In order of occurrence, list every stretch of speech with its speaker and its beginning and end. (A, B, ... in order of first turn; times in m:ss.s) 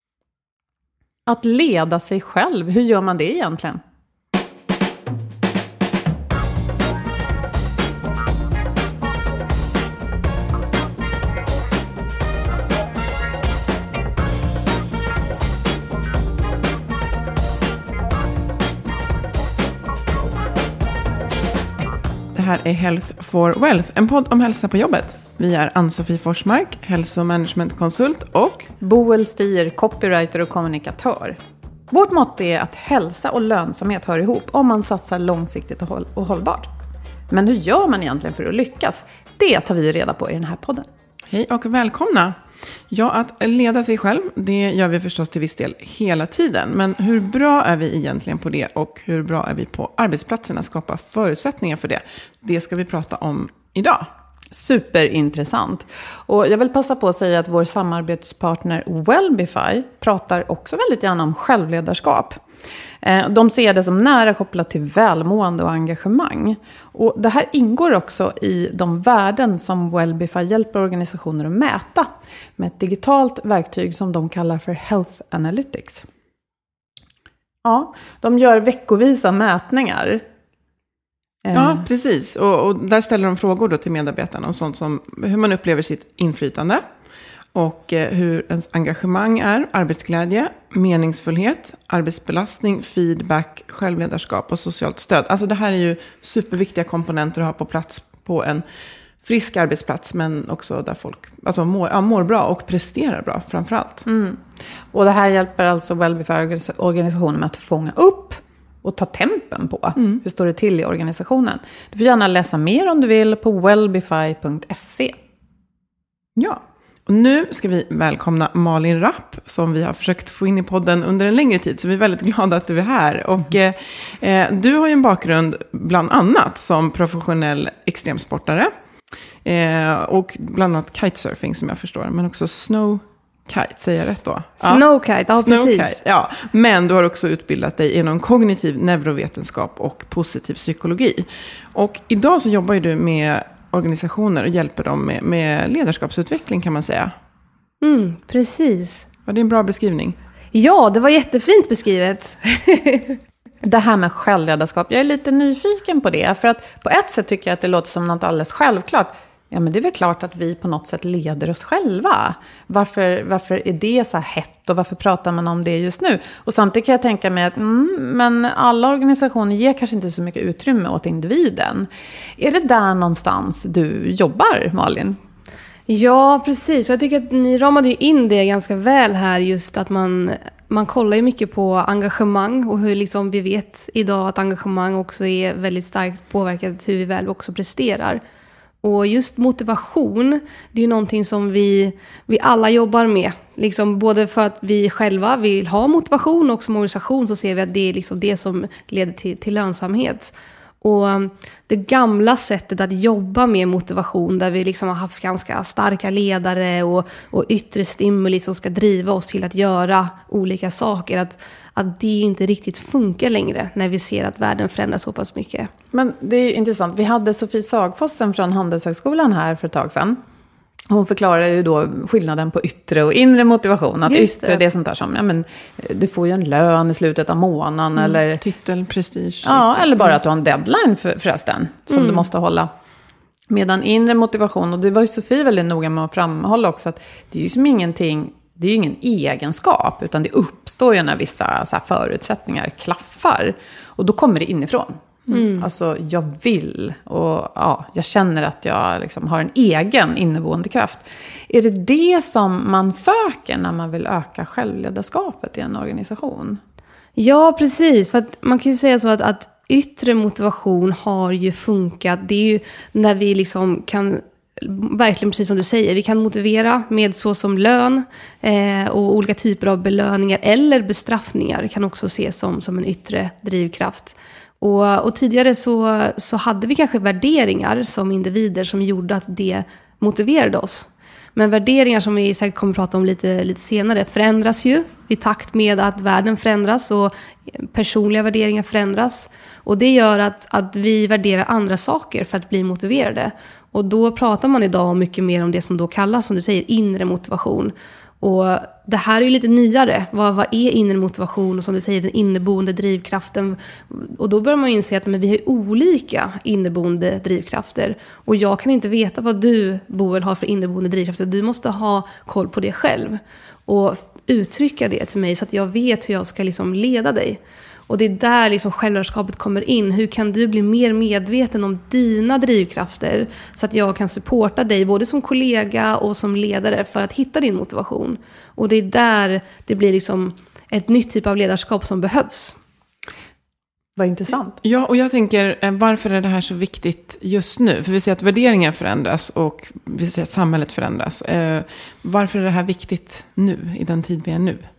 0:01.3-0:03.8 A
0:22.3-0:28.7 B
0:28.8-0:31.4 A
0:31.9-0:36.7 A
0:37.3-0:40.9 A
0:41.3-0:42.4 B
0:42.9-0:54.1 B
0:54.5-1:02.4 A
1:03.0-1:16.1 A
1:17.6-1:20.2 A
1:21.4-1:21.9 A
1:21.5-1:26.8 B
1:27.5-1:38.6 B
1:39.2-1:44.0 B
1:44.1-1:44.4 A
1:44.9-1:55.2 A
1:50.0-1:50.2 B
1:56.4-2:08.7 B
2:09.4-2:14.8 B
2:14.6-2:16.0 C
2:15.4-2:27.1 B
2:27.8-2:29.0 C
2:29.3-2:30.2 B
2:30.5-2:33.2 C
2:33.6-2:55.2 A
2:55.9-3:08.2 C
3:08.8-3:35.7 C
3:35.9-3:40.2 A
3:40.9-3:48.4 A
3:44.1-3:44.6 C
3:48.0-3:50.2 B
3:49.4-3:52.7 A
3:51.9-3:52.3 C
3:53.5-4:16.6 A
4:05.3-4:05.7 C
4:17.2-5:32.6 C
5:34.0-5:34.6 A
5:34.6-5:44.7 B